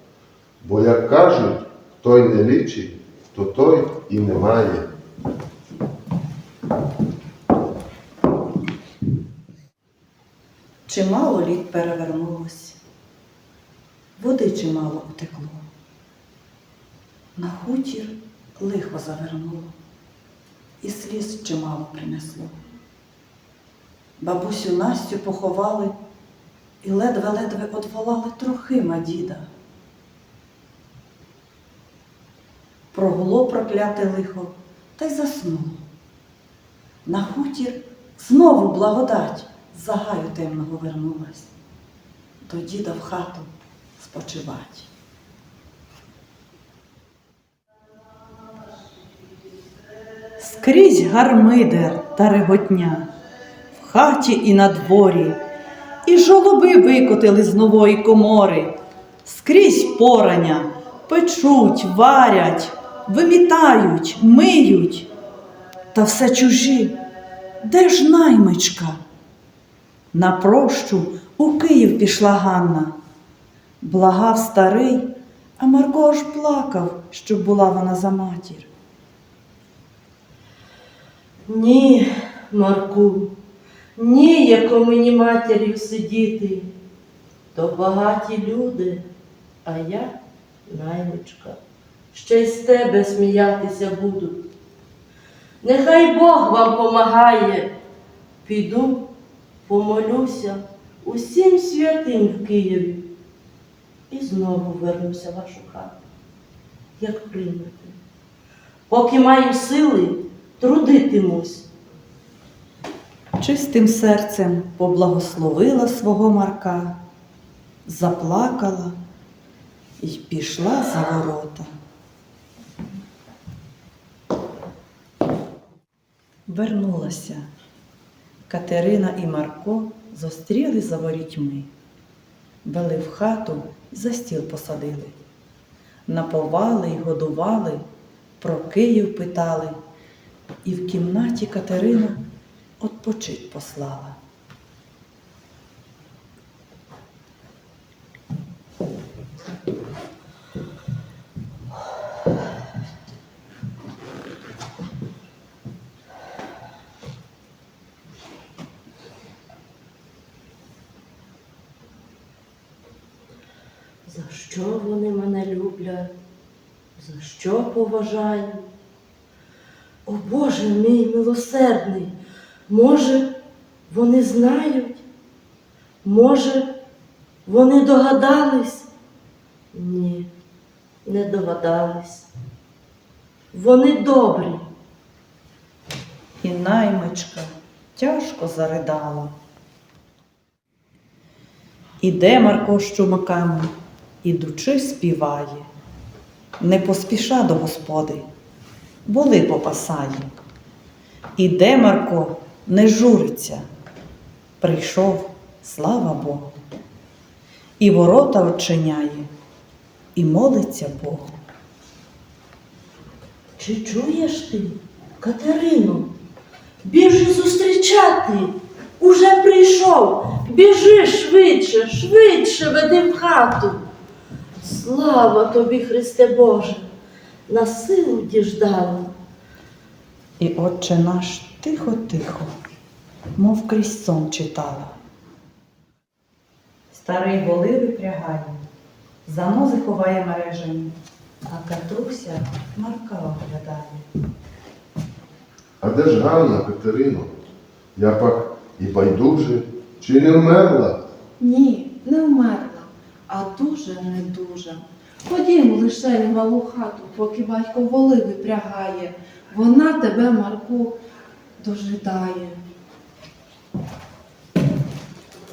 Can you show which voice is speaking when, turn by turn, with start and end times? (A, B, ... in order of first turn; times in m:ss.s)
0:00.6-0:04.9 A
0:10.9-0:12.8 B
0:14.2-0:15.6 B
0:17.4-0:19.7 B
0:20.8-0:22.5 B
0:24.2-0:26.0 B
0:26.8-0:29.5 B
0:32.9-0:35.8 B
0:37.0-0:41.5 B
0:42.4-0:44.9 B
0:50.4-0:53.1 B
0:53.7-0:55.4 B
0:56.0-1:05.1 B
1:05.9-1:06.9 B
1:07.6-1:09.0 B
1:10.1-1:12.9 B
1:13.8-1:18.7 B
1:21.5-1:23.3 C
1:24.0-1:26.7 C
1:27.5-1:29.0 C
1:29.6-1:30.2 C
1:30.7-1:31.6 C
1:32.1-1:34.4 C
1:35.6-1:37.7 C
1:38.4-1:39.1 C
1:39.7-1:43.0 C
1:44.1-1:46.0 C
1:47.0-1:48.0 C
1:48.9-1:51.7 C
1:53.4-1:57.0 B
1:57.9-1:59.0 B
2:00.0-2:01.7 B
2:06.5-2:07.5 B
2:08.5-2:11.7 B
2:12.6-2:15.2 B
2:16.1-2:17.8 B
2:18.4-2:19.8 B
2:20.6-2:22.2 B
2:22.8-2:24.2 B
2:44.0-2:46.1 C
2:47.0-2:48.6 C
2:50.1-2:52.2 C
2:52.7-2:53.3 C
2:53.9-2:55.0 C
2:56.0-2:56.7 C
2:57.5-2:58.9 C
2:59.7-3:00.3 C
3:01.0-3:02.3 C
3:03.5-3:04.7 C
3:06.4-3:09.3 B
3:12.0-3:13.7 B
3:14.2-3:15.7 B
3:16.6-3:18.2 B
3:19.1-3:20.3 B
3:21.4-3:23.6 B
3:24.6-3:26.6 B
3:27.8-3:29.3 B
3:30.2-3:31.4 B
3:33.6-3:36.1 C
3:36.8-3:43.8 C
3:44.6-3:46.9 C
3:47.5-3:49.1 C
3:50.4-3:52.5 B
3:53.4-3:55.0 B
3:56.9-3:58.6 B
3:59.3-4:01.0 B
4:01.5-4:04.0 B
4:05.8-4:07.3 A
4:08.0-4:11.0 A
4:11.4-4:21.0 D
4:21.6-4:22.6 D